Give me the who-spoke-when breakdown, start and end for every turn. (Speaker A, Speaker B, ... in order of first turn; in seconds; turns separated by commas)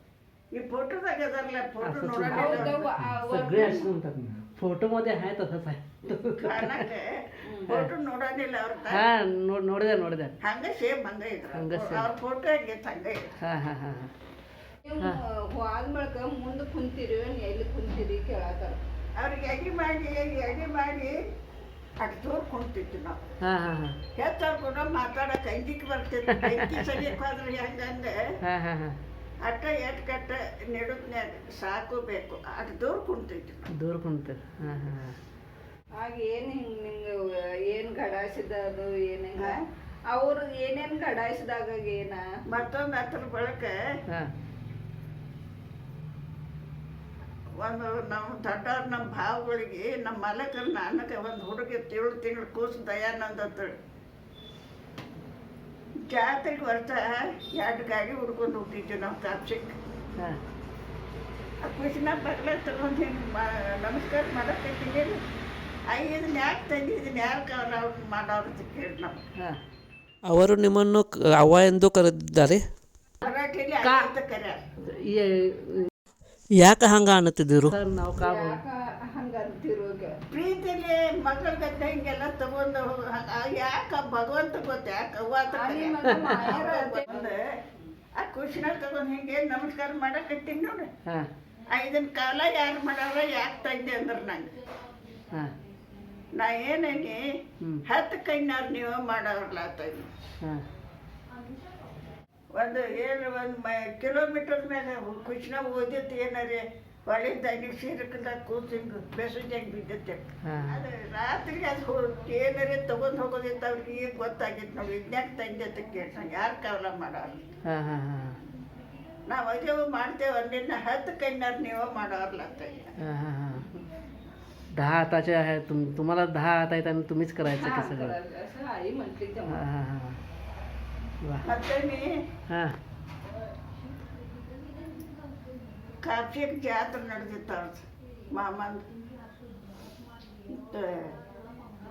Speaker A: 0.5-2.9, Speaker B: 1.8-6.8, Speaker C: 2.3-3.9, Speaker A: 6.3-9.0, Speaker C: 7.4-7.8, Speaker B: 8.9-10.3, Speaker A: 10.4-13.3, Speaker B: 11.5-12.1, Speaker B: 13.4-14.1, Speaker C: 14.8-18.8, Speaker A: 19.1-21.2, Speaker A: 22.0-23.2, Speaker B: 23.4-24.0, Speaker A: 24.1-28.2, Speaker B: 26.3-27.1, Speaker B: 28.4-29.0, Speaker A: 29.4-33.7, Speaker B: 33.7-35.2, Speaker C: 36.0-39.6, Speaker C: 40.1-42.2, Speaker A: 42.5-43.8, Speaker A: 47.6-53.7, Speaker A: 56.0-59.7, Speaker A: 61.6-65.2, Speaker A: 65.9-69.2, Speaker D: 70.3-72.6, Speaker A: 73.2-74.6, Speaker B: 73.8-74.1, Speaker B: 74.9-75.9, Speaker D: 76.6-77.7, Speaker B: 77.6-78.6, Speaker C: 78.2-80.2, Speaker A: 80.3-87.5, Speaker C: 85.5-87.3, Speaker B: 86.1-86.5, Speaker A: 88.1-90.9, Speaker A: 91.7-94.5, Speaker A: 96.3-100.1, Speaker B: 100.4-100.7, Speaker A: 102.5-117.4, Speaker B: 110.5-110.8, Speaker B: 117.7-118.4, Speaker A: 119.2-122.9, Speaker B: 123.0-123.8, Speaker B: 124.7-128.1, Speaker C: 127.5-129.6, Speaker B: 129.5-130.2, Speaker B: 131.2-131.5, Speaker A: 131.4-132.2, Speaker B: 132.5-132.8, Speaker A: 136.0-138.8, Speaker A: 140.5-141.1